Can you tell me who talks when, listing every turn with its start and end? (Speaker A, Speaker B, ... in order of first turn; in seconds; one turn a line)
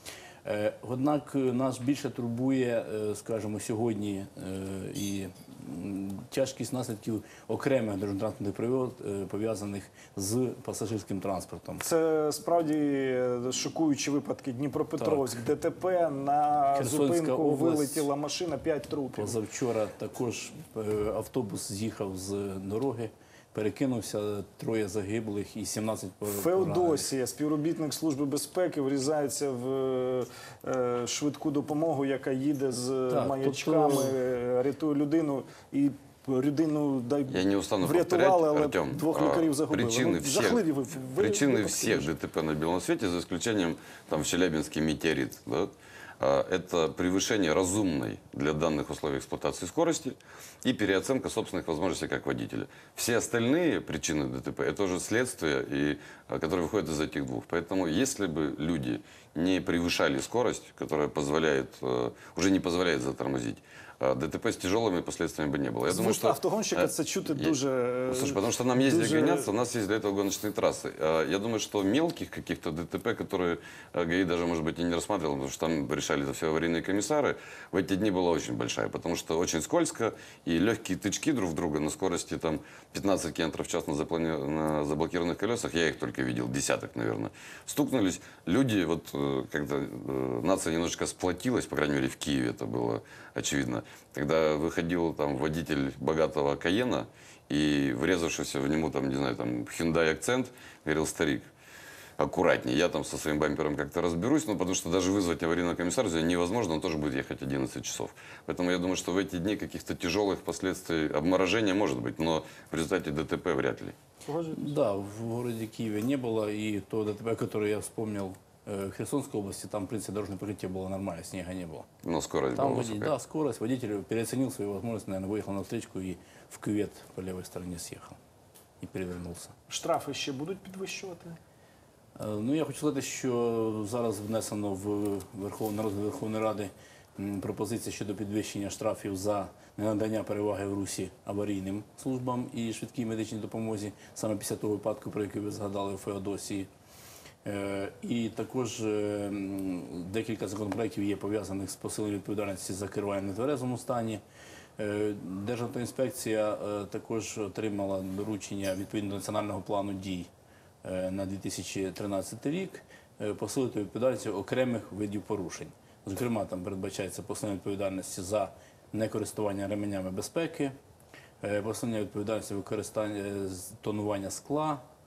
Speaker A: 0.5-11.8
Speaker B: 11.8-19.4
Speaker A: 15.0-15.3
Speaker A: 16.8-18.1
Speaker A: 19.2-27.1
Speaker B: 26.3-42.1
Speaker A: 33.1-34.1
Speaker C: 37.3-40.6
Speaker C: 41.2-67.6
Speaker B: 65.9-69.5
Speaker C: 68.1-101.5
Speaker C: 102.2-114.0
Speaker B: 114.3-114.8
Speaker A: 114.5-121.9
Speaker C: 122.0-123.1
Speaker A: 122.5-128.2
Speaker A: 128.8-129.5
Speaker B: 129.7-131.4
Speaker A: 132.2-146.7
Speaker A: 147.4-154.2
Speaker A: 154.8-160.3
Speaker A: 160.8-170.8
Speaker A: 171.4-174.8